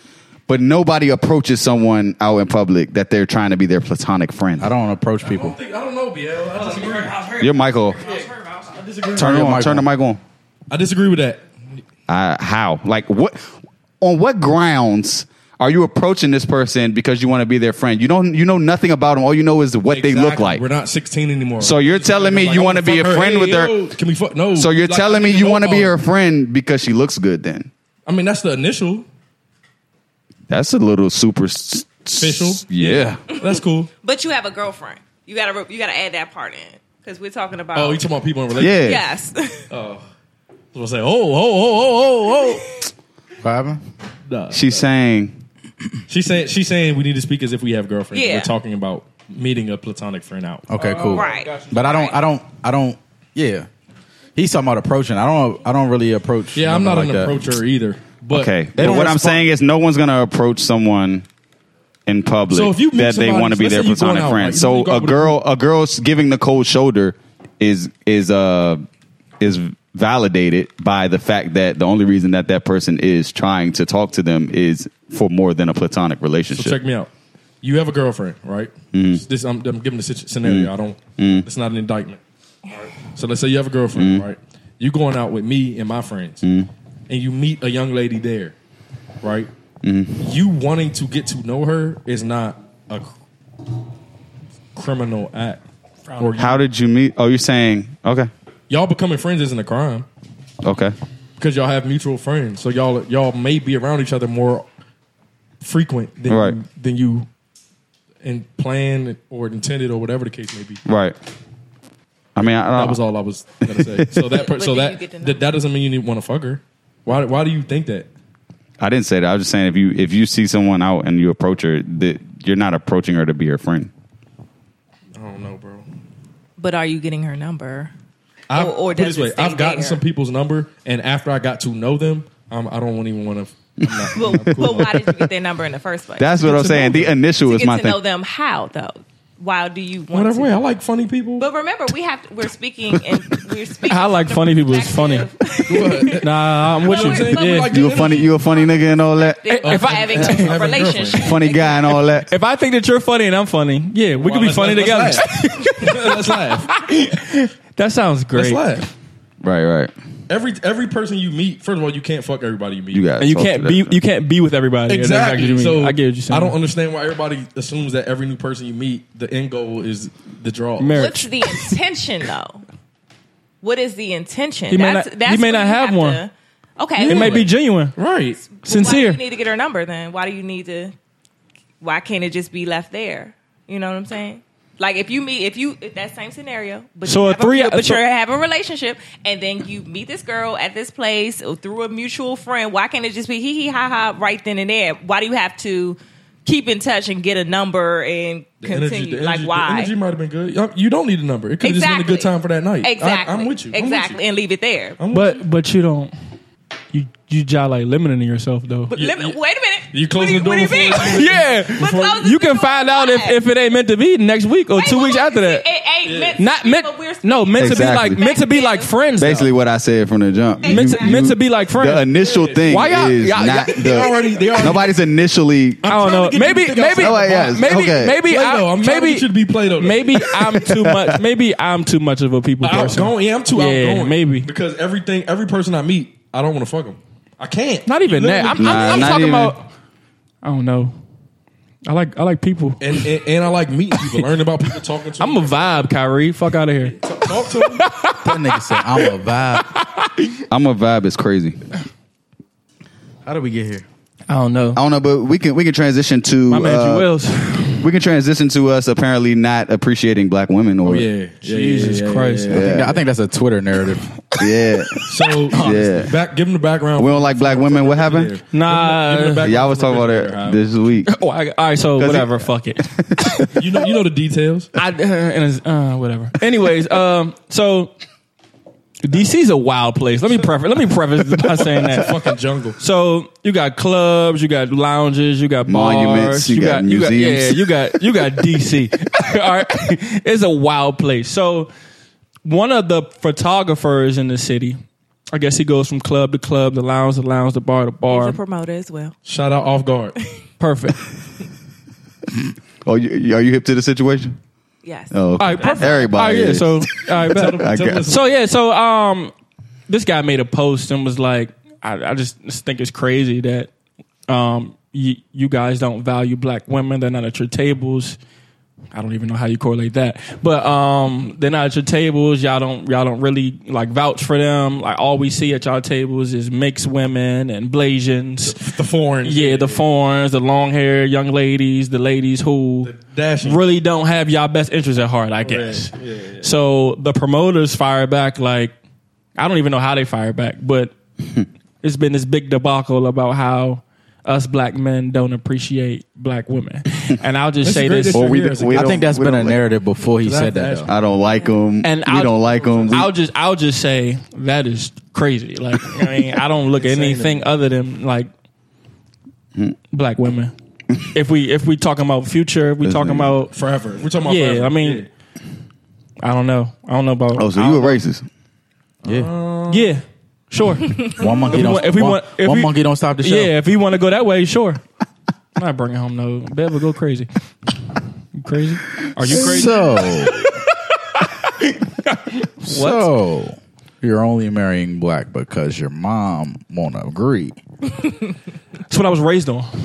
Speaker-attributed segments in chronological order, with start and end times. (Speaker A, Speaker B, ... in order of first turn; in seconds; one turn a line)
Speaker A: 0.5-4.7
Speaker B: 4.6-5.6
Speaker C: 5.2-7.5
Speaker A: 7.3-8.0
Speaker C: 8.0-9.4
Speaker B: 9.2-9.9
Speaker A: 9.2-10.2
Speaker C: 10.7-11.4
Speaker A: 12.1-20.6
Speaker C: 19.9-25.9
Speaker A: 21.6-23.8
Speaker A: 24.6-27.7
Speaker C: 28.1-29.1
Speaker A: 30.5-33.2
Speaker C: 32.2-33.9
Speaker D: 33.3-38.0
Speaker C: 37.7-38.8
Speaker A: 38.6-39.0
Speaker D: 38.7-39.7
Speaker C: 39.7-40.0
Speaker C: 40.7-42.6
Speaker D: 42.3-42.9
Speaker B: 43.4-43.8
Speaker C: 44.3-44.9
Speaker A: 44.5-45.4
Speaker C: 46.1-51.7
Speaker D: 48.1-48.5
Speaker B: 50.7-53.7
Speaker D: 51.1-52.2
Speaker B: 54.3-57.5
Speaker C: 56.5-59.4
Speaker A: 58.3-61.2
Speaker B: 58.8-59.3
Speaker A: 62.1-68.8
Speaker C: 62.5-65.4
Speaker A: 69.4-76.8
Speaker C: 76.5-77.1
Speaker C: 77.6-86.4
Speaker A: 78.9-79.2
Speaker A: 80.4-81.4
Speaker A: 84.0-84.2
Speaker A: 86.4-86.7
Speaker C: 87.1-88.5
Speaker C: 89.2-89.5
Speaker A: 89.8-90.3
Speaker C: 90.2-93.1
Speaker C: 94.7-95.6
Speaker E: 96.1-96.5
Speaker C: 96.2-96.6
Speaker A: 96.4-98.3
Speaker C: 98.7-100.0
Speaker A: 100.6-100.9
Speaker C: 101.4-104.7
Speaker C: 105.6-107.3
Speaker A: 106.3-106.5
Speaker C: 108.2-110.8
Speaker A: 110.8-111.1
Speaker A: 112.3-113.0
Speaker C: 112.7-118.1
Speaker A: 113.6-114.2
Speaker D: 114.4-115.4
Speaker A: 118.8-123.9
Speaker C: 125.1-125.8
Speaker D: 126.6-127.9
Speaker C: 128.5-134.9
Speaker D: 128.5-130.0
Speaker A: 133.8-135.2
Speaker D: 134.1-140.6
Speaker A: 136.2-138.0
Speaker C: 136.4-137.1
Speaker C: 140.1-141.4
Speaker D: 141.4-146.3
Speaker E: 143.8-145.3
Speaker C: 145.7-146.3
Speaker E: 146.1-147.7
Speaker C: 146.8-148.3
Speaker D: 146.8-152.0
Speaker A: 147.7-149.6
Speaker E: 149.6-150.6
Speaker C: 149.6-151.3
Speaker A: 151.1-152.3
Speaker E: 152.2-156.1
Speaker C: 154.2-156.8
Speaker E: 156.7-158.8
Speaker C: 158.3-158.8
Speaker A: 159.4-159.9
Speaker C: 160.3-163.0
Speaker A: 162.9-164.0
Speaker E: 163.2-166.6
Speaker C: 164.9-171.0
Speaker E: 170.8-171.7
Speaker D: 170.9-172.6
Speaker D: 173.6-177.4
Speaker E: 174.7-176.2
Speaker E: 177.0-177.9
Speaker C: 177.0-178.4
Speaker D: 178.4-180.9
Speaker E: 178.6-179.2
Speaker D: 181.8-199.9
Speaker E: 187.0-188.0
Speaker C: 198.6-204.2
Speaker D: 201.6-205.0
Speaker C: 205.0-205.4
Speaker E: 205.1-206.1
Speaker E: 206.9-208.9
Speaker D: 208.9-213.4
Speaker C: 208.9-209.4
Speaker C: 209.9-212.2
Speaker E: 211.0-215.7
Speaker D: 214.7-219.0
Speaker C: 216.0-216.4
Speaker E: 216.4-219.5
Speaker A: 217.6-218.2
Speaker A: 219.2-225.8
Speaker E: 220.6-222.1
Speaker D: 220.6-221.2
Speaker C: 222.2-224.9
Speaker E: 222.7-223.8
Speaker C: 225.8-230.3
Speaker E: 225.8-234.5
Speaker A: 226.9-228.2
Speaker A: 230.2-231.2
Speaker C: 232.6-239.1
Speaker E: 237.8-239.7
Speaker A: 238.6-239.6
Speaker E: 240.4-240.9
Speaker E: 241.8-243.1
Speaker C: 242.8-245.9
Speaker E: 245.2-246.9
Speaker C: 246.9-247.8
Speaker E: 247.8-249.1
Speaker B: 248.2-249.7
Speaker E: 249.7-250.3
Speaker A: 250.5-251.6
Speaker B: 253.2-253.8
Speaker E: 254.3-254.8
Speaker A: 254.7-257.1
Speaker E: 256.5-257.9
Speaker A: 257.8-261.1
Speaker C: 260.8-262.7
Speaker E: 261.4-262.6
Speaker A: 262.5-263.0
Speaker B: 262.5-264.0
Speaker A: 264.4-266.1
Speaker C: 265.1-270.6
Speaker B: 265.5-266.1
Speaker A: 267.0-268.3
Speaker E: 268.5-269.4
Speaker A: 269.4-271.1
Speaker E: 271.1-273.5
Speaker A: 272.0-273.5
Speaker C: 273.5-274.7
Speaker E: 274.8-277.9
Speaker E: 279.0-282.1
Speaker C: 281.4-282.8
Speaker E: 282.8-291.7
Speaker A: 285.6-287.7
Speaker E: 292.4-294.8
Speaker E: 295.3-298.4
Speaker D: 298.1-299.1
Speaker C: 299.2-300.2
Speaker E: 300.6-301.0
Speaker A: 302.8-304.4
Speaker D: 304.8-306.1
Speaker A: 305.1-308.1
Speaker E: 305.4-309.3
Speaker C: 307.2-308.3
Speaker E: 309.9-313.7
Speaker E: 314.3-318.2
Speaker E: 318.9-328.6
Speaker C: 328.4-329.8
Speaker E: 329.2-332.9
Speaker C: 332.8-333.6
Speaker E: 333.4-338.7
Speaker C: 335.4-336.5
Speaker E: 339.4-340.9
Speaker E: 341.8-348.3
Speaker C: 347.6-349.1
Speaker A: 348.1-349.6
Speaker B: 348.7-350.9
Speaker C: 350.2-350.9
Speaker A: 350.9-353.1
Speaker D: 351.3-351.6
Speaker E: 351.8-352.3
Speaker C: 352.4-353.0
Speaker E: 352.9-358.3
Speaker C: 356.7-357.5
Speaker E: 359.9-360.5
Speaker E: 361.1-363.5
Speaker A: 362.8-363.3
Speaker C: 363.5-365.1
Speaker E: 364.2-365.1
Speaker E: 366.2-368.0
Speaker A: 367.3-368.2
Speaker C: 369.0-369.9
Speaker B: 369.0-369.3
Speaker E: 369.7-374.8
Speaker D: 371.0-371.5
Speaker B: 371.1-373.5
Speaker E: 375.6-377.3
Speaker E: 378.3-383.1
Speaker B: 379.3-380.4
Speaker B: 382.6-387.6
Speaker E: 388.9-389.7